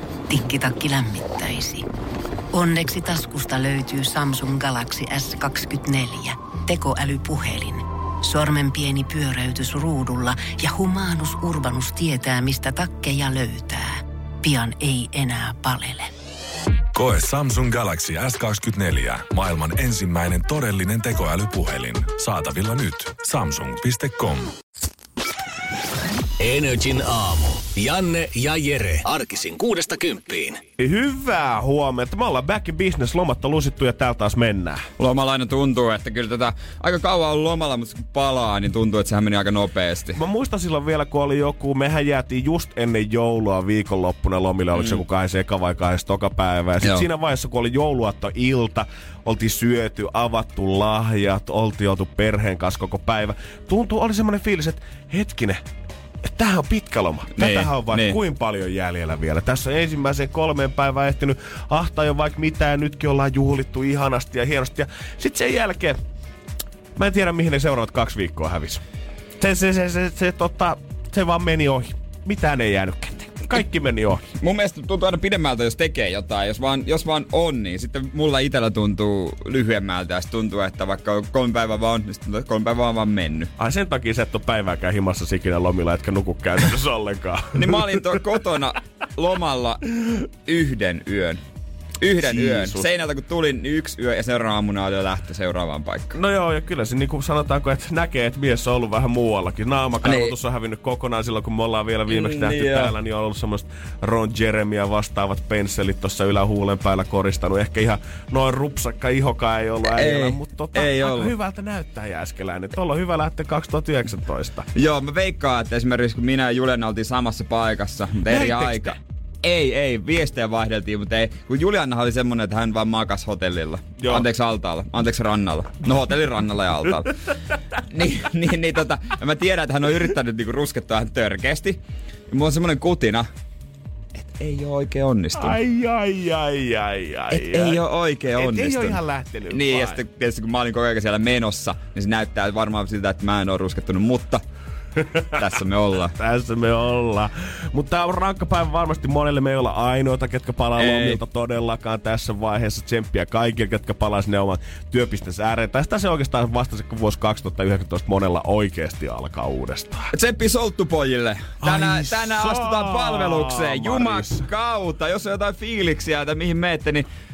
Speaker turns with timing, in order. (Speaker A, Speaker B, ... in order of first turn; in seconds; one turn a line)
Speaker A: 0.3-1.9
Speaker A: 2.5-16.1
Speaker B: 16.9-24.5
Speaker C: 26.4-30.6
Speaker D: 30.8-34.9
Speaker E: 35.0-40.2
Speaker D: 40.1-55.7
Speaker E: 44.7-45.0
Speaker E: 46.8-47.1
Speaker D: 56.2-66.0
Speaker E: 57.4-58.2
Speaker D: 67.0-68.8
Speaker D: 69.4-74.3
Speaker E: 74.3-83.5
Speaker D: 83.6-88.0
Speaker E: 87.5-89.8
Speaker E: 90.4-91.4
Speaker E: 92.0-96.2
Speaker D: 92.2-92.9
Speaker D: 96.1-114.7
Speaker E: 100.0-100.3
Speaker E: 102.1-102.9
Speaker E: 109.9-111.3
Speaker E: 114.7-127.2
Speaker D: 118.3-119.0
Speaker D: 124.0-124.2
Speaker E: 127.9-133.3
Speaker E: 134.2-135.6
Speaker D: 135.3-137.8
Speaker E: 137.3-144.4
Speaker D: 138.3-140.0
Speaker D: 145.0-145.4
Speaker E: 145.3-146.2
Speaker D: 146.2-160.1
Speaker E: 150.8-151.2
Speaker E: 160.1-167.1
Speaker D: 161.6-164.5